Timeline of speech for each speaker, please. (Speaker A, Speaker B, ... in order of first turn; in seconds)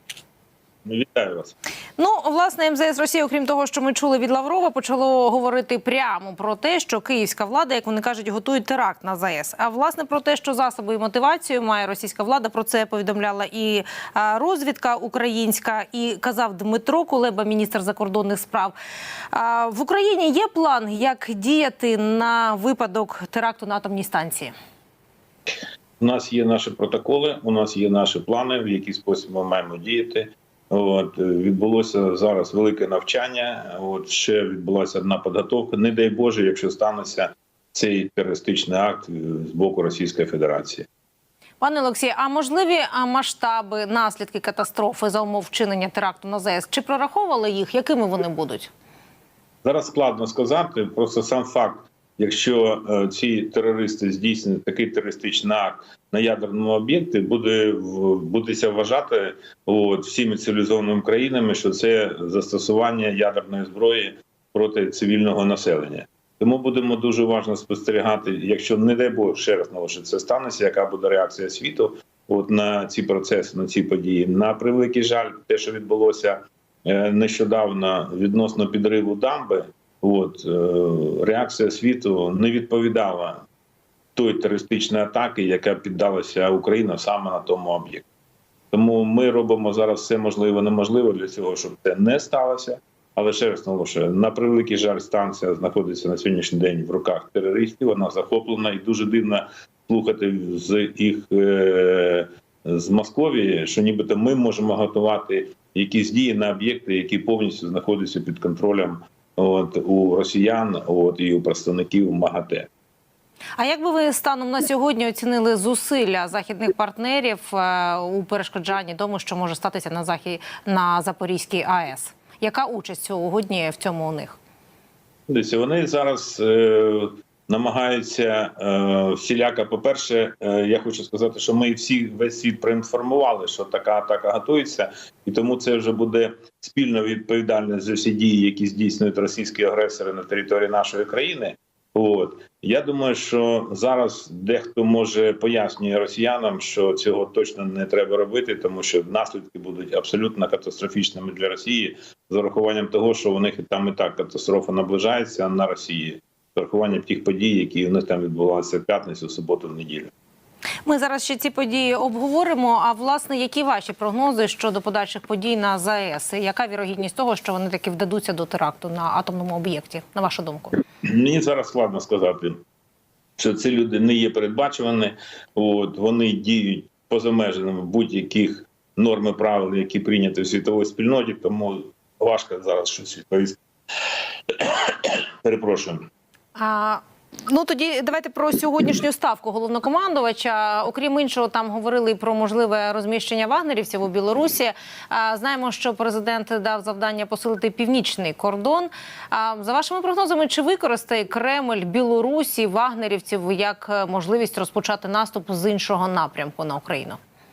Speaker A: 0.8-1.5, 26.0-40.9, 49.6-83.4, 84.1-88.0, 88.7-112.7, 125.3-160.1, 171.0-172.6, 173.4-183.6, 184.5-186.1
Speaker B: 2.0-18.8, 19.3-24.5, 41.6-48.7, 113.6-124.4, 160.8-170.8, 186.5-207.2